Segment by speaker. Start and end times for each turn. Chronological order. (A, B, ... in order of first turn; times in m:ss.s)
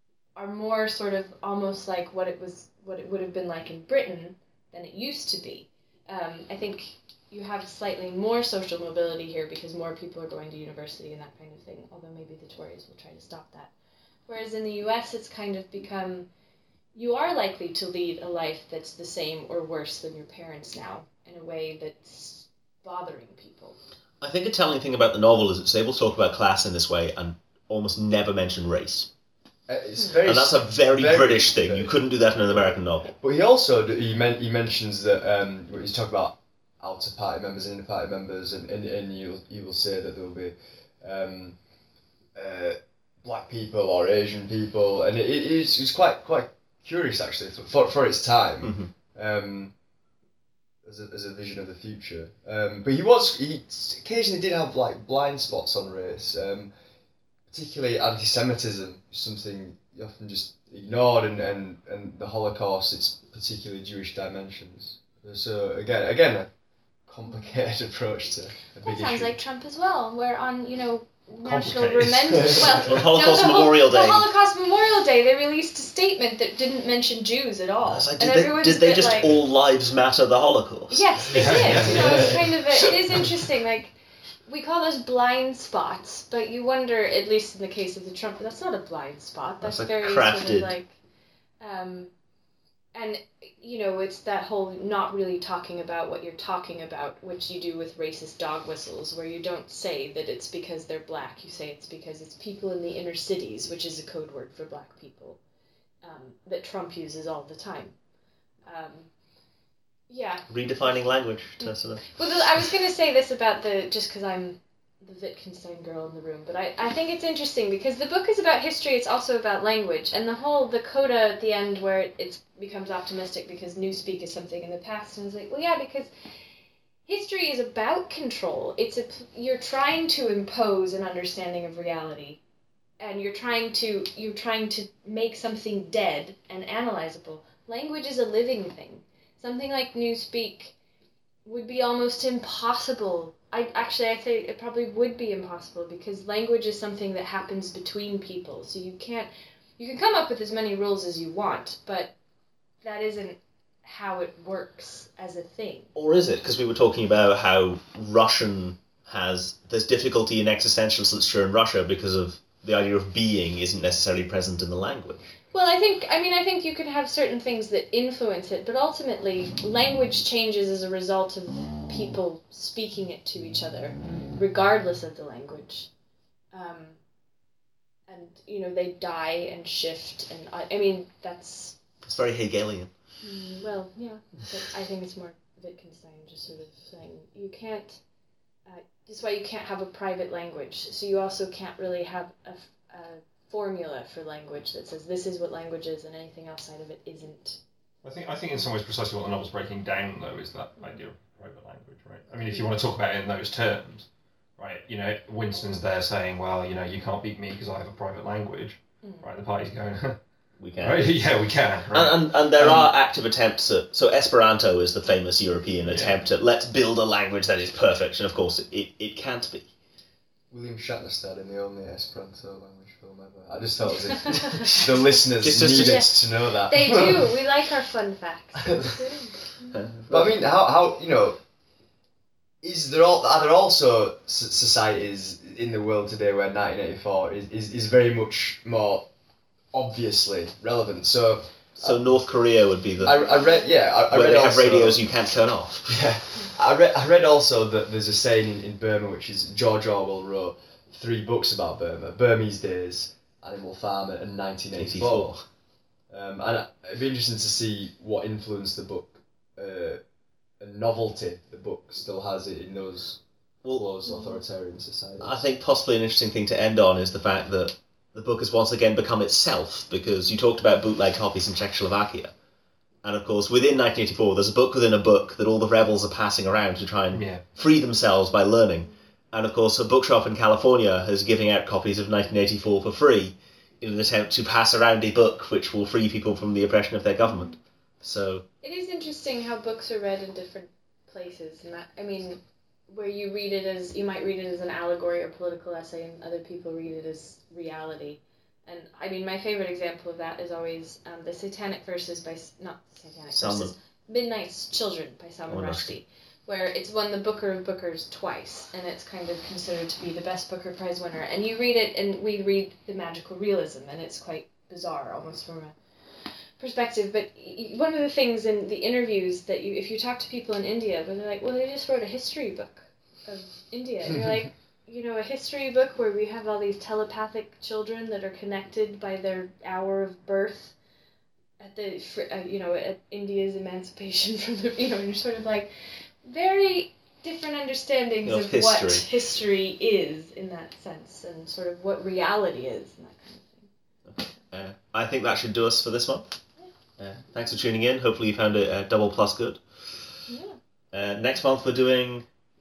0:00.4-0:13.7 A
0:14.3-0:16.3 A
0:17.0-0:23.8 A
0:24.2-0:29.1 B
0:29.7-0:41.6 C
0:30.2-0:33.1 B
0:42.3-0:49.7 C
0:48.6-0:48.9 B
0:50.8-0:56.7 C
0:57.5-1:06.5 C
1:07.0-1:09.4 C
1:08.8-1:19.3 A
1:11.4-1:13.0 D
1:12.7-1:14.3 B
1:17.8-1:22.3 B
1:20.9-1:23.9 A
1:21.3-1:22.5 D
1:24.4-1:30.9 A
1:29.6-1:30.7 B
1:31.6-1:32.1 A
1:32.9-1:45.4 A
1:46.0-1:48.0 A
1:48.7-1:49.1 A
1:50.1-2:06.1 A
1:50.5-1:52.1 B
2:07.0-2:12.4 A
2:13.0-2:20.7 A
2:21.4-2:32.1 A
2:32.8-2:35.9 A
2:36.0-2:45.3 B
2:45.5-2:55.9 A
2:56.5-2:57.0 A
2:58.1-3:01.8 A
3:02.0-3:02.9 B
3:03.2-3:08.0 A
3:08.7-3:17.6 A
3:18.0-3:24.1 D
3:24.6-3:30.2 D
3:30.6-3:31.1 B
3:30.8-3:32.9 D
3:31.9-3:39.7 B
3:35.9-3:36.2 D
3:40.5-3:47.4 C
3:44.5-3:46.2 B
3:45.7-3:49.7 A
3:49.7-3:50.3 B
3:50.1-3:51.4 C
3:52.6-3:59.1 C
3:59.7-4:02.1 C
4:01.8-4:03.3 B
4:03.0-4:05.0 C
4:04.1-4:06.0 B
4:05.9-4:15.4 C
4:14.7-4:15.4 B
4:16.1-4:20.0 C
4:20.6-4:23.2 C
4:23.7-4:25.4 C
4:24.0-4:24.4 A
4:25.2-4:32.3 B
4:33.0-4:48.4 B
4:37.1-4:37.4 D
4:47.2-4:47.6 A
4:48.6-5:15.7 A
5:03.3-5:03.7 B
5:05.5-5:06.0 B
5:16.6-5:30.7 A
5:31.6-5:35.7 A
5:36.2-5:43.7 A
5:38.2-5:39.1 B
5:44.0-5:46.4 B
5:47.0-5:49.6 B
5:50.3-5:50.6 A
5:50.9-5:52.3 B